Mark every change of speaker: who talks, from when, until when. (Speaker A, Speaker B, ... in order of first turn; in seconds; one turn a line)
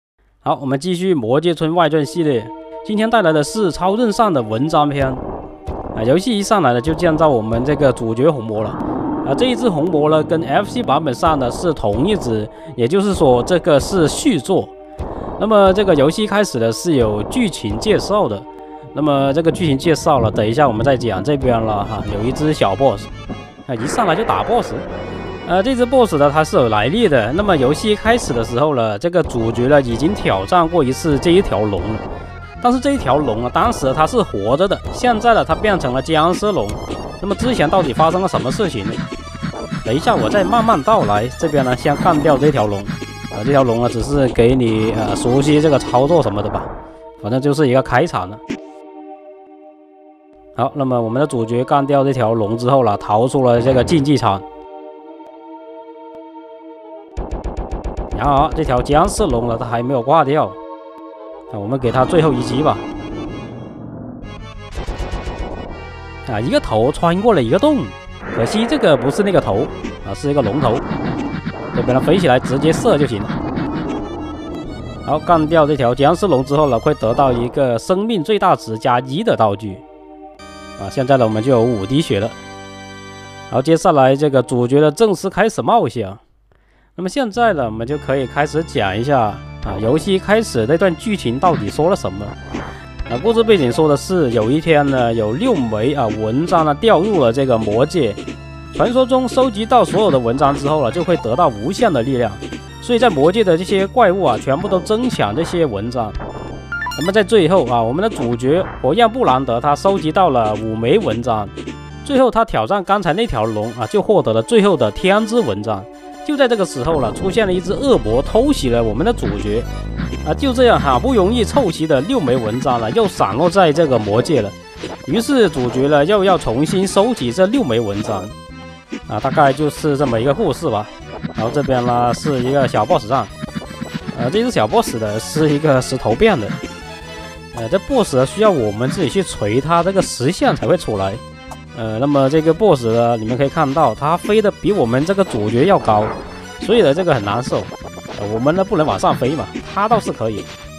Speaker A: 0.4-5.2
Speaker A: 5.9-14.7
Speaker A: 15.4-23.1
Speaker A: 23.7-24.9
Speaker A: 25.4-32.0
Speaker A: 32.6-39.0
Speaker A: 39.8-46.7
Speaker A: 47.2-48.4
Speaker A: 50.5-54.4
Speaker A: 58.1-60.6
Speaker A: 61.5-62.8
Speaker A: 66.2-70.8
Speaker A: 71.7-73.4
Speaker A: 75.0-79.8
Speaker A: 80.8-82.4
Speaker A: 83.5-86.2
Speaker A: 87.0-92.4
Speaker A: 93.1-98.2
Speaker A: 98.7-106.2
Speaker A: 106.9-111.5
Speaker A: 112.0-119.7
Speaker A: 120.2-128.3
Speaker A: 129.1-133.3
Speaker A: 134.1-136.6
Speaker A: 137.5-141.2
Speaker A: 141.7-150.5